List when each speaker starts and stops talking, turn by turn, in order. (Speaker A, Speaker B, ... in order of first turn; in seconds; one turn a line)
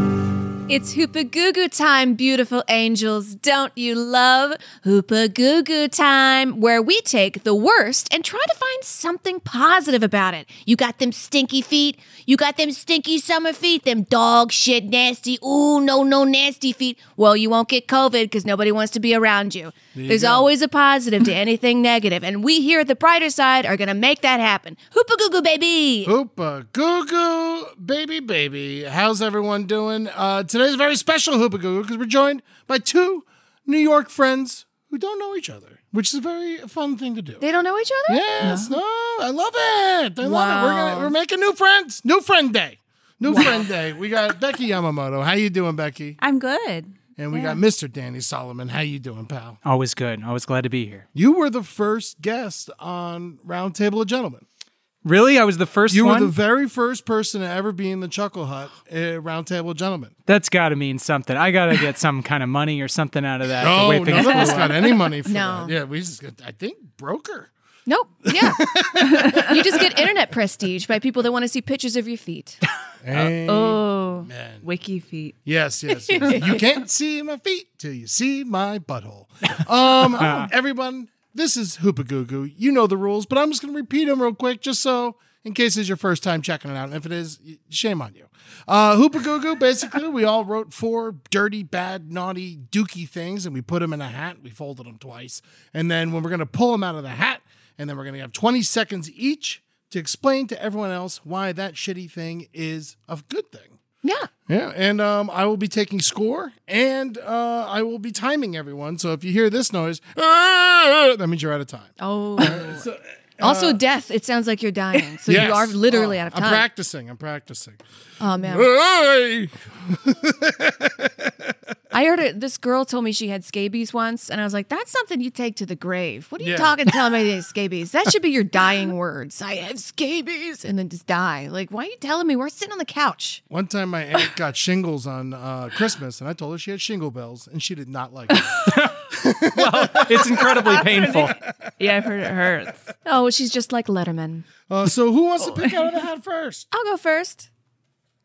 Speaker A: 0.7-26.1
Speaker B: 19.9-20.5
Speaker B: 26.1-37.4
Speaker A: 37.4-38.2
Speaker B: 38.1-46.2
Speaker C: 38.4-38.8
Speaker A: 40.2-41.1
Speaker C: 46.2-47.6
Speaker B: 47.2-49.6
Speaker D: 49.6-51.1
Speaker B: 51.1-54.5
Speaker D: 55.0-56.3
Speaker B: 55.9-60.1
Speaker D: 60.3-64.7
Speaker B: 63.6-67.5
Speaker C: 64.2-64.8
Speaker A: 65.3-65.8
Speaker A: 67.9-72.6
Speaker B: 68.3-70.0
Speaker B: 73.0-74.7
Speaker C: 73.4-75.4
Speaker B: 75.5-103.8
Speaker D: 80.2-80.5
Speaker A: 104.0-104.3
Speaker B: 104.5-113.8
Speaker A: 112.0-112.9
Speaker A: 113.4-116.7
Speaker B: 115.3-117.8
Speaker A: 118.2-118.7
Speaker B: 118.4-121.6
Speaker A: 121.9-133.4
Speaker B: 126.4-127.2
Speaker B: 133.5-138.6
Speaker D: 138.7-139.0
Speaker B: 139.1-140.5
Speaker D: 139.6-141.4
Speaker C: 140.5-142.8
Speaker A: 143.1-144.5
Speaker B: 144.7-146.7
Speaker A: 146.7-147.5